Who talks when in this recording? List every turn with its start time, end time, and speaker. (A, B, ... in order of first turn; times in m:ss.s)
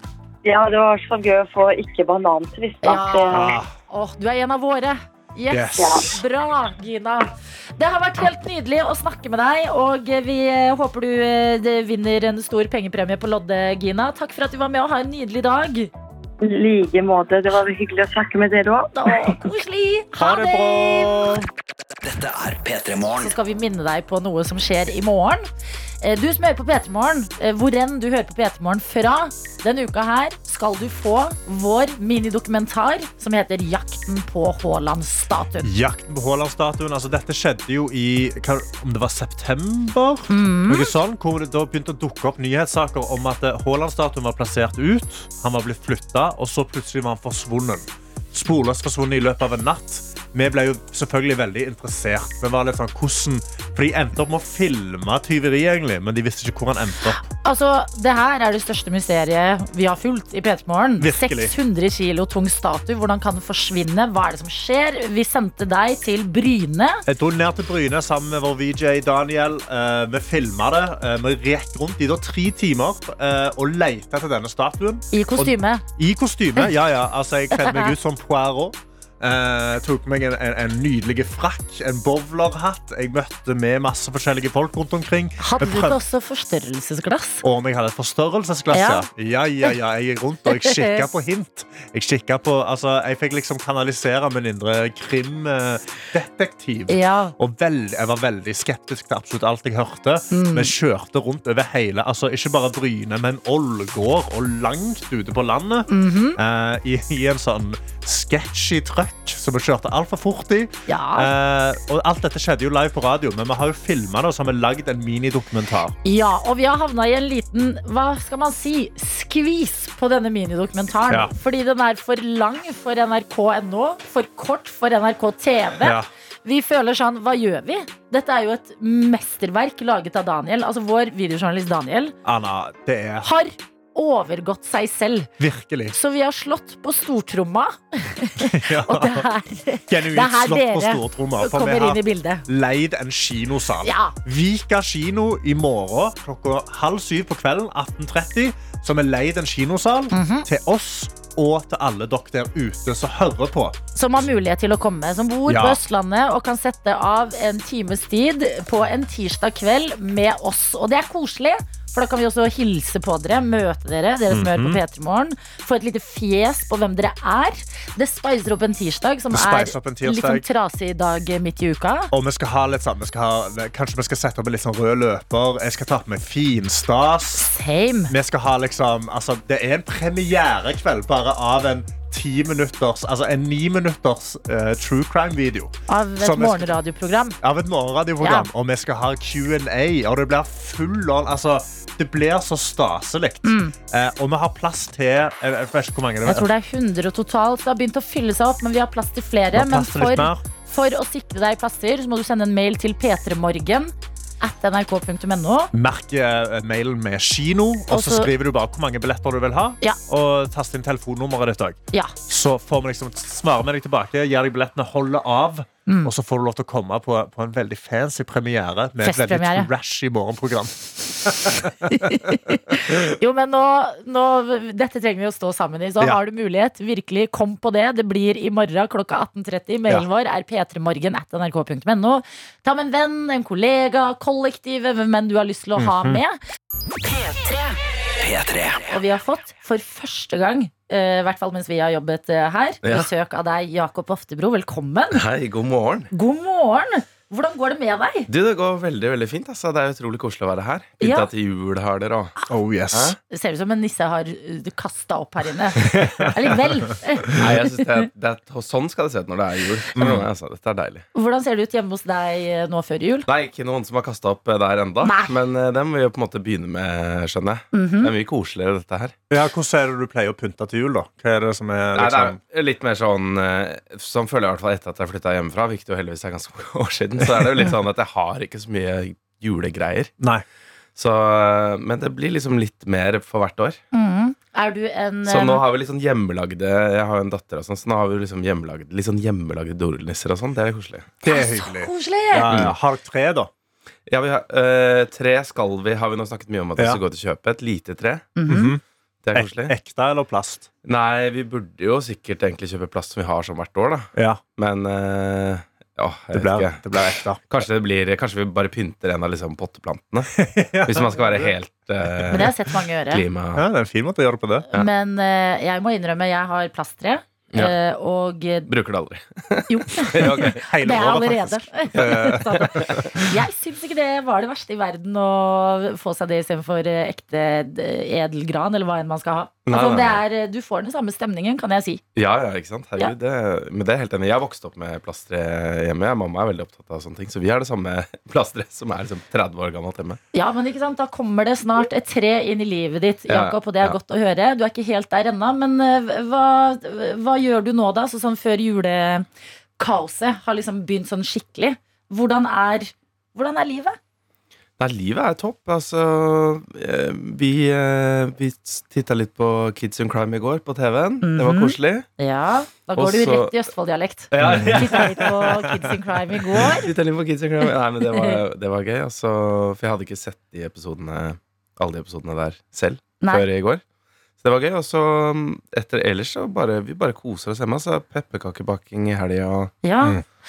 0:00.4-0:03.5 A
0:02.8-0:15.9 B
0:03.3-0:03.7 C
0:05.5-0:06.2 C
0:05.8-0:06.1 A
0:16.4-0:19.4 A
0:18.9-0:21.4 B
0:20.2-0:21.5 C
0:22.0-0:23.3 D
0:23.2-0:25.5 B
0:26.0-0:35.7 B
0:35.6-0:57.2 C
0:40.3-0:41.0 B
0:57.1-1:07.0 B
1:01.0-1:01.5 C
1:07.1-1:26.0 C
1:15.1-1:15.8 B
1:17.6-1:17.9 B
1:25.4-1:27.4 B
1:27.4-1:56.0 C
1:28.7-1:29.1 B
1:30.5-1:31.0 B
1:36.9-1:37.3 B
1:40.3-1:40.7 B
1:45.9-1:46.4 B
1:50.9-1:51.3 B
1:56.0-2:12.2 B
2:05.8-2:06.1 C
2:12.2-2:13.3 C
2:13.2-2:15.3 B
2:15.4-2:15.9 C
2:15.9-2:22.4 B
2:18.4-2:19.3 C
2:19.9-2:33.8 C
2:23.8-2:24.2 B
2:30.1-2:30.5 B
2:34.0-2:52.1 B
2:35.5-2:35.8 C
2:44.3-2:44.8 C
2:49.3-2:50.4 C
2:52.1-2:57.5 C
2:57.4-2:58.1 B
2:58.1-3:06.7 C
3:05.9-3:07.4 B
3:07.4-3:16.5 C
3:08.2-3:08.5 B
3:13.4-3:13.7 B
3:16.2-3:25.7 B
3:19.5-3:20.4 C
3:25.7-3:42.4 C
3:27.9-3:28.3 B
3:35.9-3:36.1 B
3:39.0-3:39.7 B
3:41.5-3:56.4 B
3:55.8-3:56.2 C
3:58.2-3:58.9 D
3:58.9-4:05.2 B
4:02.8-4:03.1 E
4:05.1-4:06.1 E
4:06.1-4:08.3 B
4:08.3-4:12.3 E
4:11.0-4:11.3 B
4:12.5-4:13.2 C
4:12.9-4:13.2 E
4:13.3-4:17.7 B
4:17.4-4:21.0 E
4:20.0-4:20.3 C
4:21.1-4:23.3 B
4:23.3-4:29.2 E
4:25.0-4:25.3 B
4:27.7-4:28.1 B
4:29.3-4:32.4 C
4:31.9-4:40.1 E
4:41.0-4:43.8 E
4:43.9-4:45.6 B
4:45.3-4:51.2 E
4:51.2-4:53.5 C
4:51.3-4:52.6 B
4:52.5-4:52.8 E
4:54.1-4:58.4 E
4:58.4-4:58.7 B
4:58.5-4:58.8 C
4:59.2-4:59.7 E
4:59.3-5:00.7 C
5:00.8-5:10.3 E
5:04.2-5:04.4 C
5:06.3-5:07.4 C
5:10.4-5:11.5 C
5:10.9-5:12.6 E
5:12.3-5:13.3 B
5:13.1-5:13.6 E
5:13.6-5:14.7 C
5:14.7-5:18.7 B
5:18.7-5:20.6 E
5:19.7-5:32.0 B
5:20.2-5:23.0 C
5:22.0-5:23.1 E
5:29.7-5:30.2 E
5:32.2-5:40.2 E
5:40.3-5:49.3 B
5:43.3-5:44.0 E
5:49.8-5:54.0 B
5:54.8-6:02.1 E
6:01.2-6:06.9 B
6:02.9-6:03.6 E
6:04.3-6:05.3 E
6:04.4-6:05.9 C
6:06.6-6:13.8 E
6:08.1-6:08.4 B
6:13.2-6:13.5 B
6:14.4-6:19.7 E
6:19.8-6:20.2 B